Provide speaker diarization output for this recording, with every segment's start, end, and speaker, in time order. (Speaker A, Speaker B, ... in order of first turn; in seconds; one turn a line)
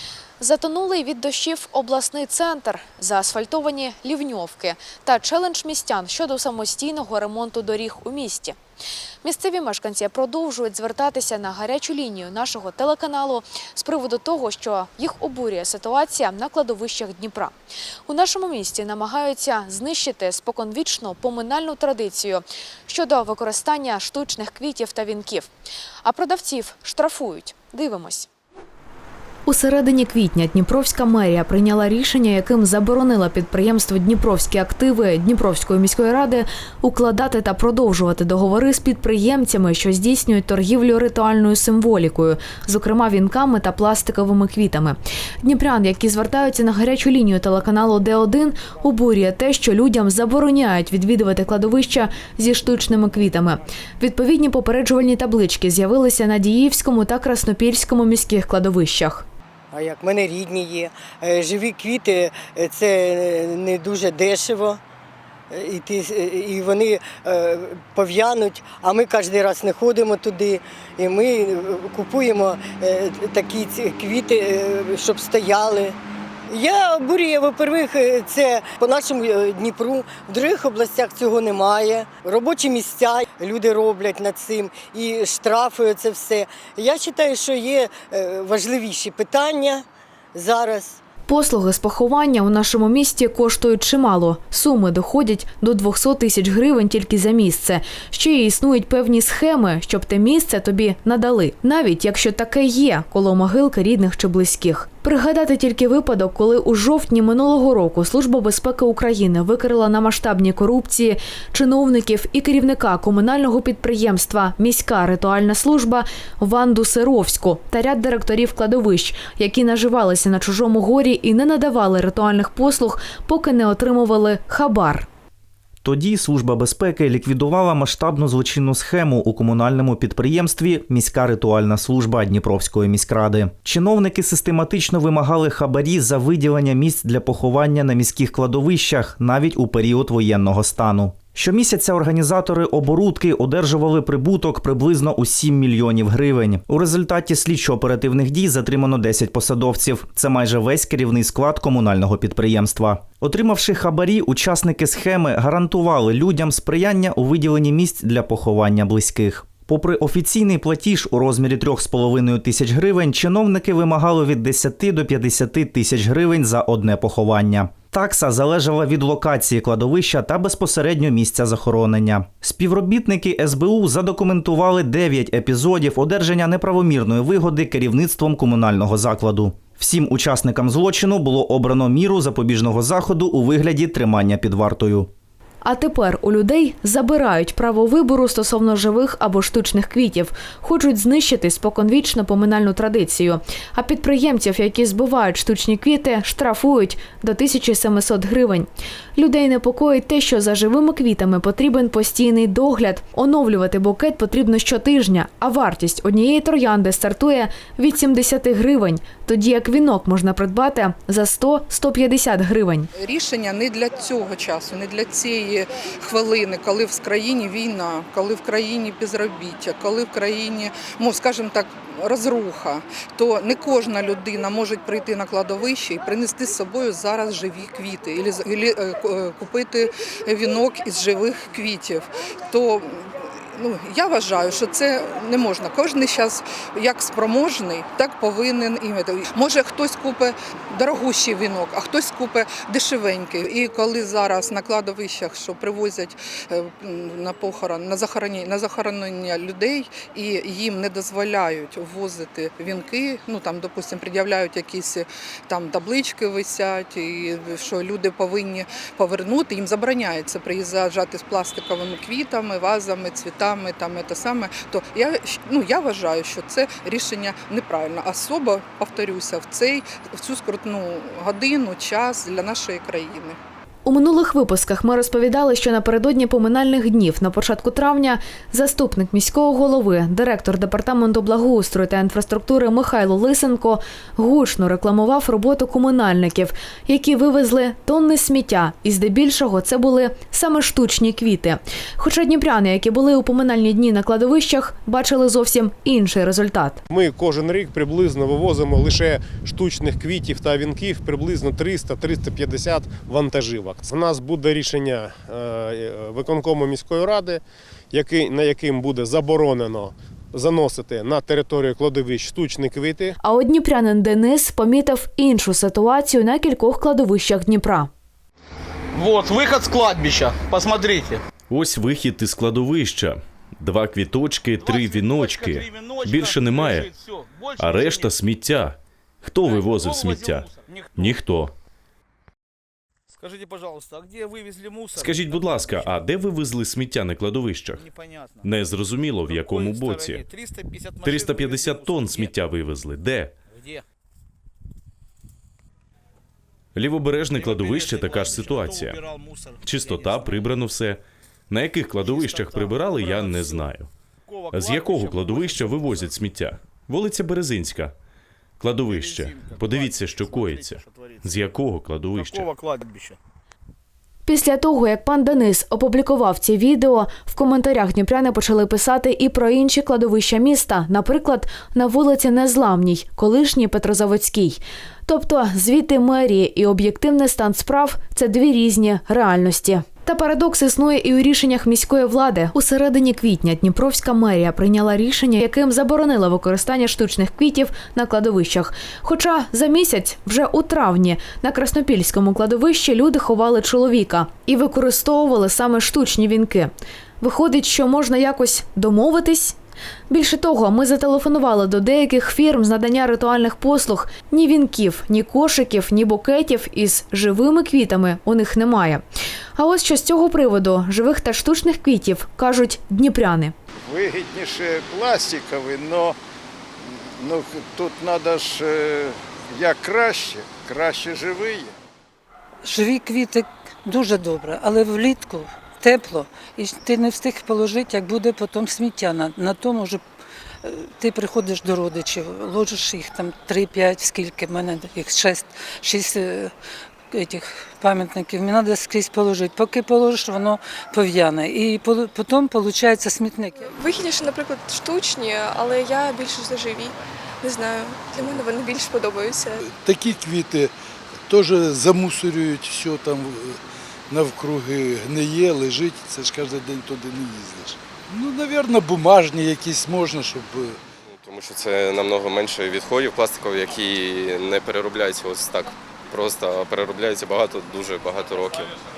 Speaker A: 0.4-8.6
Speaker A: 9.2-17.5
Speaker A: 18.1-25.5
Speaker A: 26.0-28.3
Speaker A: 29.5-59.3
Speaker B: 59.7-64.8
Speaker B: 65.5-76.0
Speaker B: 76.5-91.0
Speaker A: 91.3-125.1
Speaker C: 125.8-185.1
Speaker A: 185.6-212.9
Speaker D: 213.0-273.4
Speaker A: 273.9-296.8
Speaker E: 296.9-313.1
Speaker A: 313.2-317.9
Speaker F: 318.9-321.2
Speaker G: 321.5-326.9
Speaker F: 324.6-328.1
Speaker G: 327.6-331.5
Speaker F: 329.4-331.1
Speaker F: 333.1-335.9
Speaker G: 335.0-337.9
Speaker F: 337.8-338.5
Speaker G: 338.4-340.2
Speaker F: 339.3-342.3
Speaker G: 341.0-343.3
Speaker F: 343.5-343.8
Speaker G: 346.8-349.0
Speaker F: 347.4-350.5
Speaker G: 349.6-353.9
Speaker F: 352.0-353.7
Speaker F: 354.3-356.1
Speaker G: 354.5-357.9
Speaker G: 358.6-362.5
Speaker F: 358.9-361.3
Speaker F: 362.2-363.2
Speaker A: 364.3-399.6
Speaker A: 400.1-409.0
Speaker A: 409.6-413.5
Speaker H: 413.9-416.2
Speaker H: 417.2-421.7
Speaker I: 422.6-430.0
Speaker I: 430.6-436.6
Speaker I: 437.1-443.7
Speaker J: 443.7-449.6
Speaker K: 449.7-450.7
Speaker K: 451.3-453.6
Speaker K: 454.1-460.8
Speaker L: 461.1-468.7